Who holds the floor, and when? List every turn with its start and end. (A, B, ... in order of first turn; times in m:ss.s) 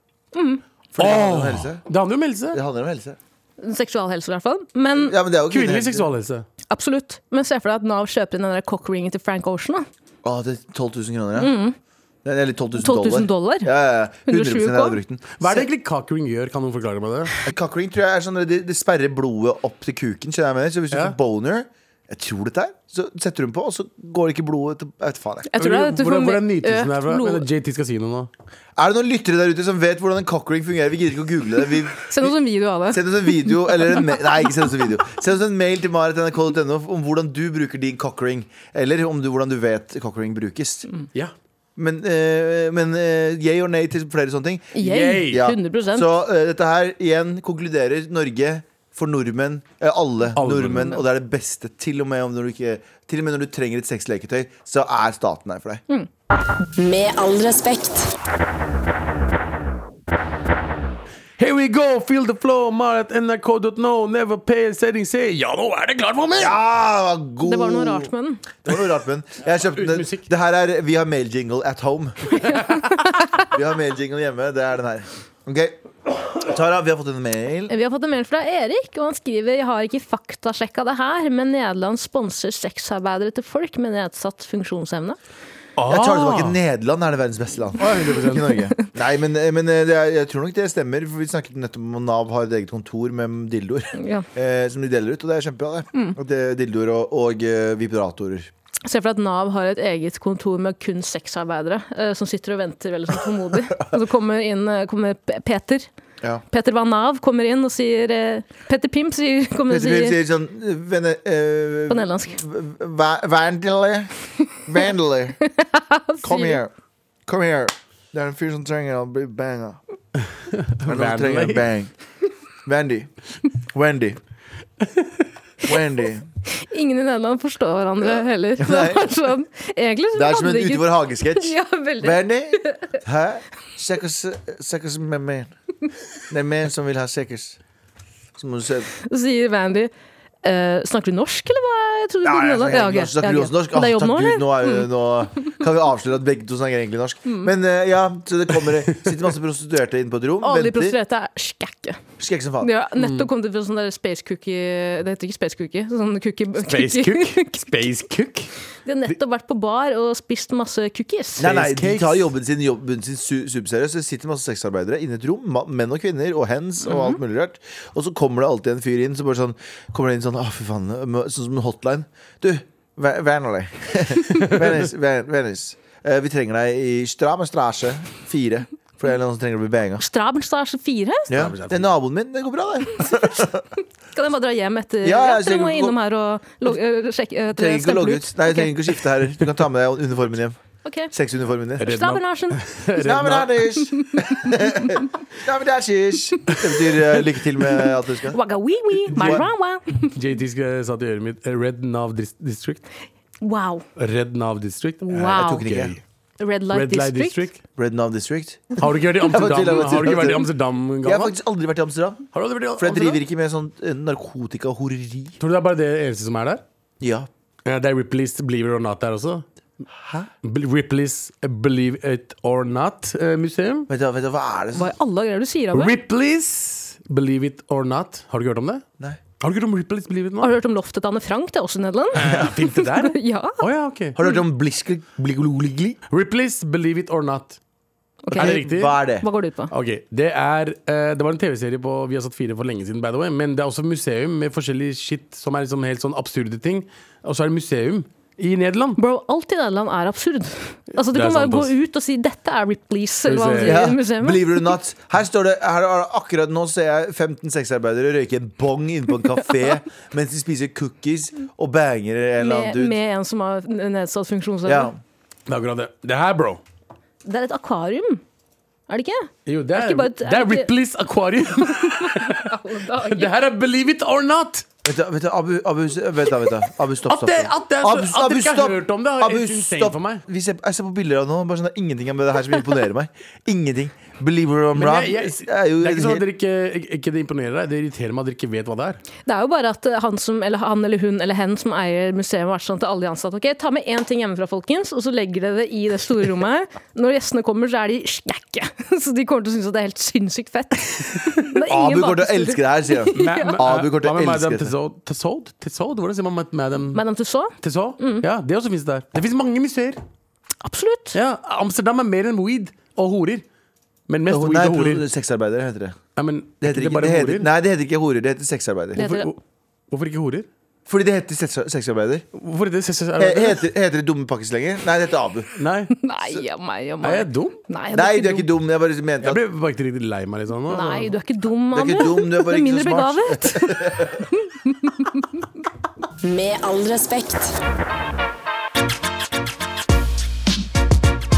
0:00.3-0:00.6 A
0:00.9-0:01.8 B
0:01.0-0:02.6 C
0:02.5-0:03.2 B
0:03.6-0:05.1 A
0:05.0-0:06.1 B
0:05.5-0:06.4 C
0:06.7-0:09.8 A
0:10.2-0:11.5 B
0:11.4-0:11.7 A
0:12.2-0:15.7 B
0:12.8-0:13.7 A
0:14.2-0:15.0 A
0:15.4-0:17.3 C
0:17.4-0:25.5 B
0:25.5-0:27.4 A
0:25.6-0:28.3 C
0:28.8-0:32.4 B
0:32.1-0:34.2 A
0:32.9-0:40.9 B
0:41.8-0:44.7 B
0:44.7-0:46.1 A
0:44.8-0:45.4 C
0:45.2-0:55.8 B
0:50.4-0:51.0 C
0:56.7-0:58.1 D
1:01.4-1:06.6 C
1:06.3-1:08.1 B
1:07.4-1:08.4 A
1:08.6-1:12.4 B
1:09.6-1:10.3 C
1:12.3-1:13.5 A
1:13.4-1:17.7 B
1:17.7-1:25.2 A
1:25.8-1:26.6 C
1:25.9-1:38.5 B
1:27.8-1:28.6 C
1:34.0-1:34.2 A
1:38.8-1:45.9 A
1:46.5-1:50.2 A
1:49.7-1:54.1 B
1:51.9-1:52.4 A
1:54.6-1:55.4 B
1:55.4-1:56.6 A
1:56.2-1:56.7 B
1:57.2-1:59.8 B
2:00.5-2:01.6 C
2:00.8-2:01.9 B
2:02.6-2:03.1 B
2:03.7-2:04.2 B
2:05.6-2:06.3 B
2:06.6-2:12.9 A
2:08.0-2:09.1 B
2:10.1-2:15.5 B
2:16.3-2:17.6 B
2:18.4-2:18.9 B
2:19.0-2:19.9 A
2:20.4-2:24.9 A
2:22.2-2:31.0 B
2:30.4-2:32.0 A
2:32.2-2:32.7 B
2:32.6-2:37.7 A
2:33.0-2:33.3 C
2:36.6-2:38.5 C
2:38.8-2:41.5 A
2:41.4-3:00.0 B
2:41.4-2:42.3 C
2:46.8-2:47.2 A
3:00.0-3:01.3 A
3:01.3-3:03.6 B
3:01.3-3:01.9 C
3:04.1-3:08.7 A
3:05.0-3:06.0 B
3:07.5-3:10.6 B
3:10.8-3:11.1 A
3:11.1-3:11.9 B
3:11.8-3:13.7 C
3:11.8-3:12.6 A
3:13.0-3:18.4 B
3:14.0-3:15.0 A
3:18.3-3:20.1 A
3:19.1-3:19.4 B
3:20.1-3:22.8 C
3:23.4-3:23.8 A
3:24.0-3:26.0 C
3:25.0-3:25.7 A
3:25.1-3:26.0 B
3:26.4-3:27.4 A
3:26.7-3:27.6 C
3:27.8-3:30.5 B
3:28.8-3:31.4 C
3:31.0-3:32.2 B
3:32.3-3:33.2 C
3:32.8-3:35.4 B
3:35.4-3:36.6 C
3:37.0-3:37.3 B
3:37.6-3:39.4 C
3:40.0-3:40.3 B
3:40.4-3:43.9 C
3:43.9-3:44.9 B
3:44.7-3:45.9 A
3:45.7-3:48.8 C
3:49.4-3:50.5 C
3:50.4-3:53.6 A
3:52.1-3:54.2 C
3:54.2-3:56.0 B
3:56.1-3:57.6 C
3:58.2-3:59.7 A
3:58.3-3:59.2 B
3:58.3-3:59.0 C
3:59.7-4:09.0 C
4:09.0-4:14.7 A
4:11.1-4:11.7 C
4:13.3-4:13.8 C
4:13.6-4:23.0 B
4:22.4-4:24.9 A
4:24.6-4:25.0 B
4:25.5-4:26.6 C
4:27.2-4:28.2 A
4:28.9-4:30.7 A
4:29.4-4:32.5 C
4:31.6-4:33.3 A
4:33.0-4:34.6 C
4:34.8-4:46.2 B
4:37.0-4:40.2 C
4:44.7-4:49.0 C
4:49.2-5:03.6 A
5:01.6-5:04.7 B
5:03.1-5:07.0 C
5:06.9-5:08.2 A
5:07.6-5:10.0 C
5:10.6-5:11.2 A
5:11.1-5:13.4 C
5:14.1-5:15.0 C
5:14.3-5:16.0 B
5:16.2-5:17.5 C
5:16.6-5:19.1 B
5:19.0-5:19.3 A
5:19.0-5:19.4 C
5:19.9-5:20.5 C
5:20.9-5:22.2 B
5:22.3-5:23.6 C
5:23.2-5:25.5 B
5:25.6-5:25.9 C
5:26.0-5:28.5 A
5:27.0-5:27.6 C
5:27.9-5:29.4 B
5:29.2-5:31.1 C
5:30.7-5:35.2 A
5:31.7-5:34.2 B
5:36.2-5:37.6 D